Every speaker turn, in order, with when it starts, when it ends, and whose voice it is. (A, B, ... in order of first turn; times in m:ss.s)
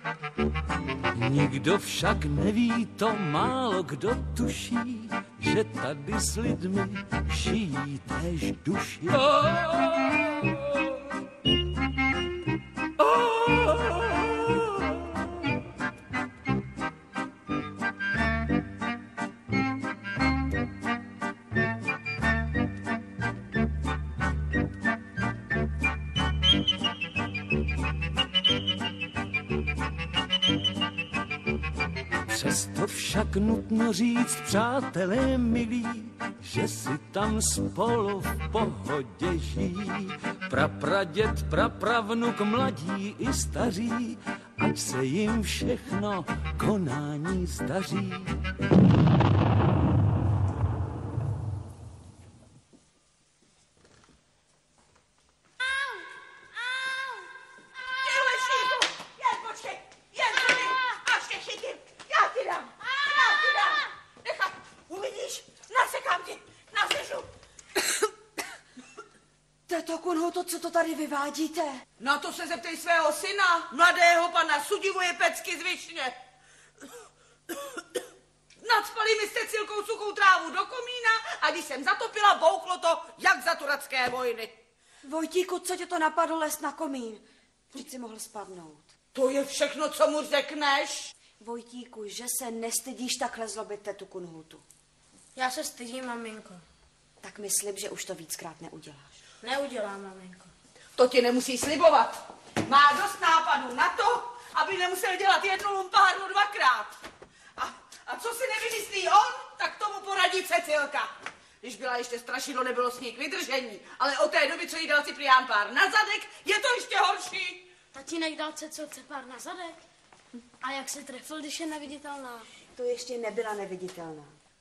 0:01.1-0:10.1 A
0:32.3-0:48.3 A
0:58.0-1:07.3 B
1:09.7-1:11.8 C
1:12.0-1:16.2 B
1:18.6-1:24.6 B
1:25.0-1:28.9 C
1:29.1-1:31.1 B
1:31.4-1:34.6 C
1:35.3-1:36.6 D
1:37.2-1:39.2 C
1:39.4-1:40.5 D
1:41.0-1:47.0 B
1:47.6-1:51.1 B
1:51.6-1:57.7 B
1:57.9-1:59.8 D
2:00.6-2:02.5 D
2:02.7-2:04.3 C